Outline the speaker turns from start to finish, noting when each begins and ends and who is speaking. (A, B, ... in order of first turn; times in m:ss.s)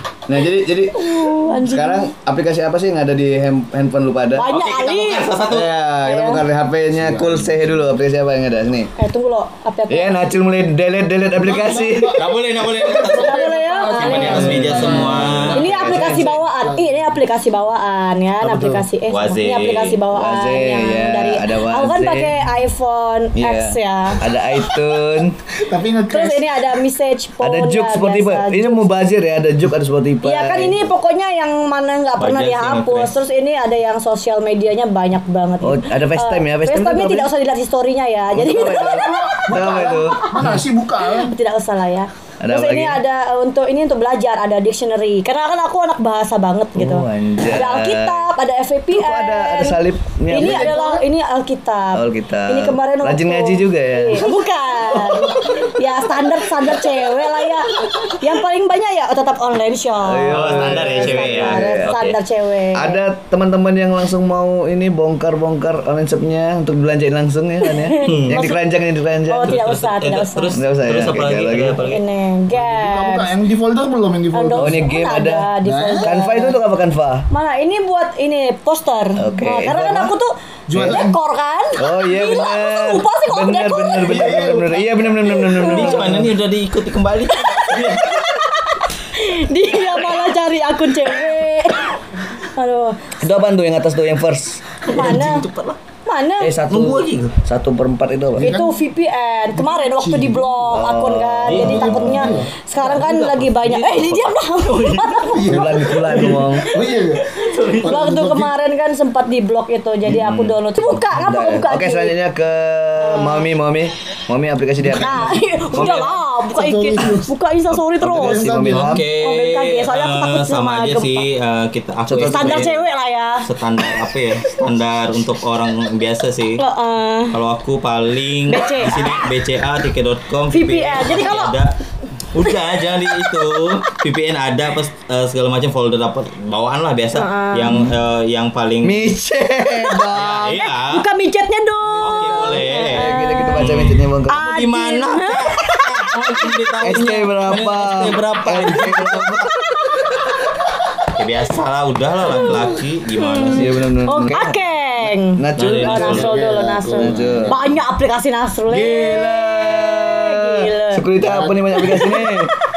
0:00.3-0:04.5 A
0:00.9-0:02.1 B
0:04.3-0:05.4 B
0:04.5-0:05.7 C
0:05.4-0:08.9 A
0:06.0-0:06.4 B
0:06.9-0:07.8 D
0:08.9-0:10.2 B
0:09.9-0:12.2 A
0:11.4-0:17.2 D
0:12.2-0:15.6 C
0:13.0-0:14.8 B
0:14.2-0:16.3 A
0:15.5-0:24.3 B
0:18.4-0:18.8 D
0:19.1-0:20.0 C
0:20.1-0:22.4 A
0:23.3-0:25.4 A
0:25.6-0:26.7 D
0:26.1-0:29.0 B
0:27.4-0:30.9 A
0:30.2-0:39.4 B
0:32.2-0:33.2 C
0:35.6-0:37.3 A
0:38.3-0:40.5 A
0:38.7-0:41.3 D
0:41.0-1:03.0 B
0:42.4-0:43.0 A
0:46.8-0:48.3 A
0:48.9-0:51.0 A
0:50.4-0:50.9 D
0:51.9-0:54.3 A
0:54.9-0:55.7 A
1:00.0-1:01.9 A
1:00.3-1:02.2 C
1:02.7-1:09.6 A
1:07.6-1:08.6 B
1:08.0-1:08.5 C
1:09.2-1:10.6 B
1:09.4-1:12.0 C
1:10.5-1:11.8 A
1:11.8-1:13.4 B
1:12.5-1:14.9 D
1:14.3-1:16.6 B
1:14.6-1:17.3 A
1:15.6-1:16.1 D
1:17.3-1:24.7 B
1:19.2-1:20.1 A
1:20.7-1:21.2 D
1:20.7-1:21.0 A
1:21.8-1:26.3 A
1:24.1-1:24.4 C
1:25.2-1:26.2 B
1:25.6-1:28.3 C
1:27.4-1:28.4 B
1:29.0-1:33.1 B
1:29.7-1:30.2 C
1:33.2-1:34.7 A
1:34.8-1:35.4 B
1:34.9-1:35.8 C
1:36.0-1:36.6 B
1:36.4-1:38.5 A
1:36.7-1:37.4 C
1:38.4-1:38.8 D
1:38.4-1:45.9 B
1:39.5-1:40.6 D
1:40.7-1:42.4 A
1:41.4-1:45.3 C
1:41.5-1:42.5 D
1:45.3-1:48.5 D
1:45.4-1:46.7 A
1:45.9-1:47.9 C
1:47.8-1:52.1 B
1:50.0-1:56.2 A
1:53.0-1:53.5 B
1:54.9-1:58.6 B
1:56.5-1:57.3 D
1:58.0-1:59.0 A
1:58.1-1:59.0 D
1:58.7-2:02.8 C
1:59.1-2:01.3 B
2:02.1-2:02.7 A
2:02.2-2:03.5 B
2:03.4-2:06.6 C
2:06.6-2:07.4 B
2:07.3-2:11.7 C
2:08.5-2:09.3 B
2:10.5-2:11.6 B
2:12.3-2:19.1 C
2:17.1-2:17.8 B
2:18.8-2:20.5 A
2:19.8-2:23.7 B
2:20.1-2:21.0 C
2:21.8-2:24.4 A
2:22.0-2:29.4 C
2:24.3-2:27.1 B
2:26.8-2:30.3 A
2:31.2-2:34.5 C
2:32.4-2:41.0 B
2:33.5-2:34.5 A
2:35.3-2:36.3 A
2:35.6-2:36.3 C
2:36.0-2:37.7 D
2:37.0-2:37.7 A
2:38.7-2:42.5 A
2:41.2-2:41.6 D
2:41.7-2:42.3 B